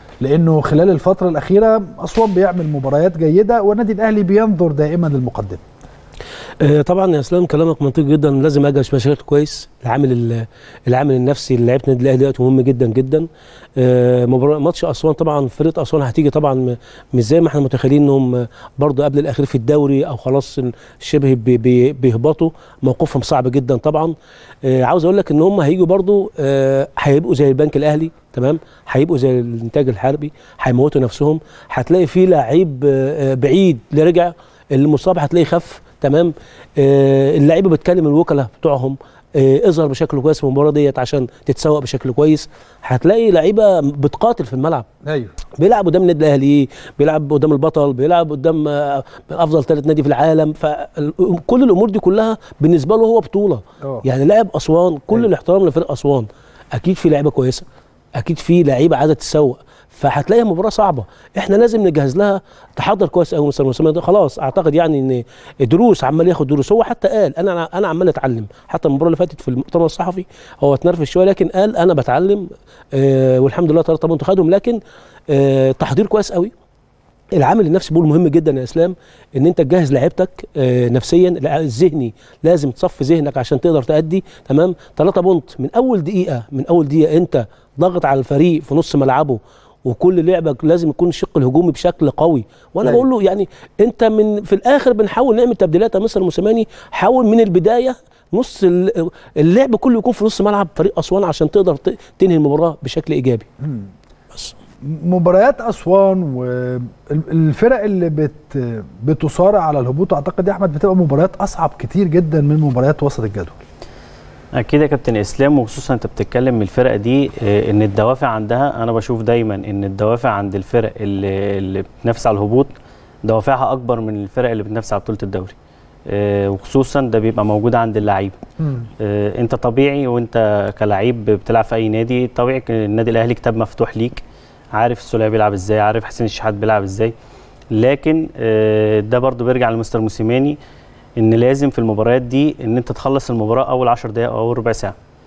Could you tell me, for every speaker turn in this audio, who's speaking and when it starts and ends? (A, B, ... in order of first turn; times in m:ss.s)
0:00.2-0:05.6 A
0:06.6-0:44.9 B
0:45.0-0:45.3 A
0:45.6-0:57.7 B
0:58.2-1:16.5 B
1:17.4-1:43.5 B
1:43.6-1:43.9 A
1:44.9-1:53.6 A
1:54.6-2:02.7 C
2:03.2-2:05.6 C
2:06.1-2:08.4 C
2:08.6-2:08.9 A
2:09.0-2:14.2 C
2:14.7-2:17.1 C
2:17.7-2:20.6 C
2:21.2-2:25.0 C